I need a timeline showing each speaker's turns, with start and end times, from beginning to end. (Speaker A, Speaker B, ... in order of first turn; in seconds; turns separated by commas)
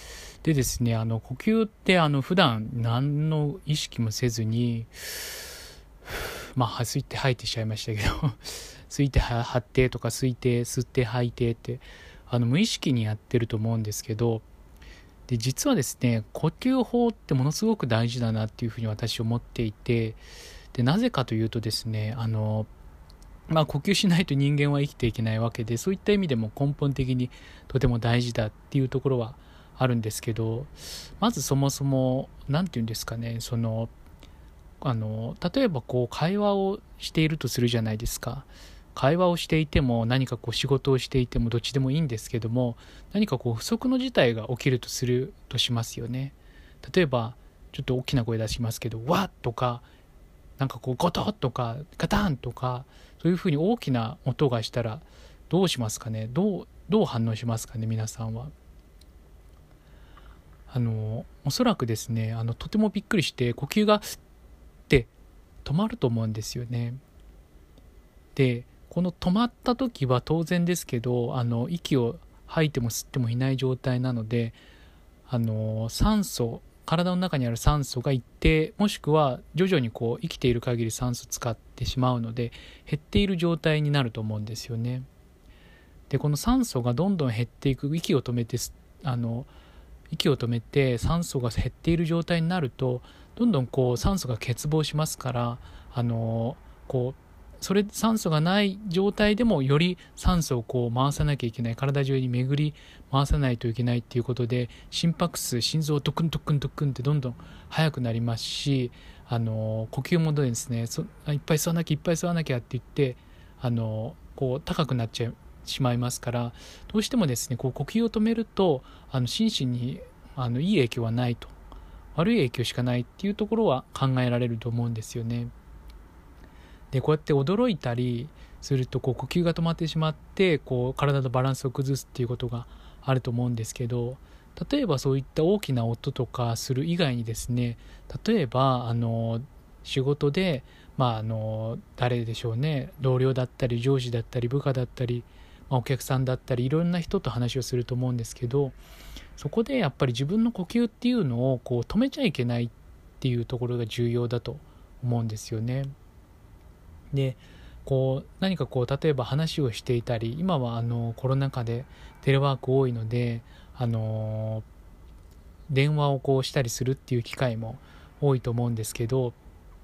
Speaker A: 0.4-5.4, Speaker A: 6.1-14.4, Speaker A: 15.3-20.2, Speaker A: 20.7-22.7, Speaker A: 23.5-33.9, Speaker A: 34.8-49.9, Speaker A: 50.6-58.5, Speaker A: 60.7-64.0, Speaker A: 65.6-67.0, Speaker A: 68.3-74.6, Speaker A: 75.3-85.1, Speaker A: 86.1-89.5, Speaker A: 90.1-121.5, Speaker A: 122.1-125.5, Speaker A: 126.9-148.8, Speaker A: 149.4-155.9, Speaker A: 157.1-164.7, Speaker A: 165.7-169.4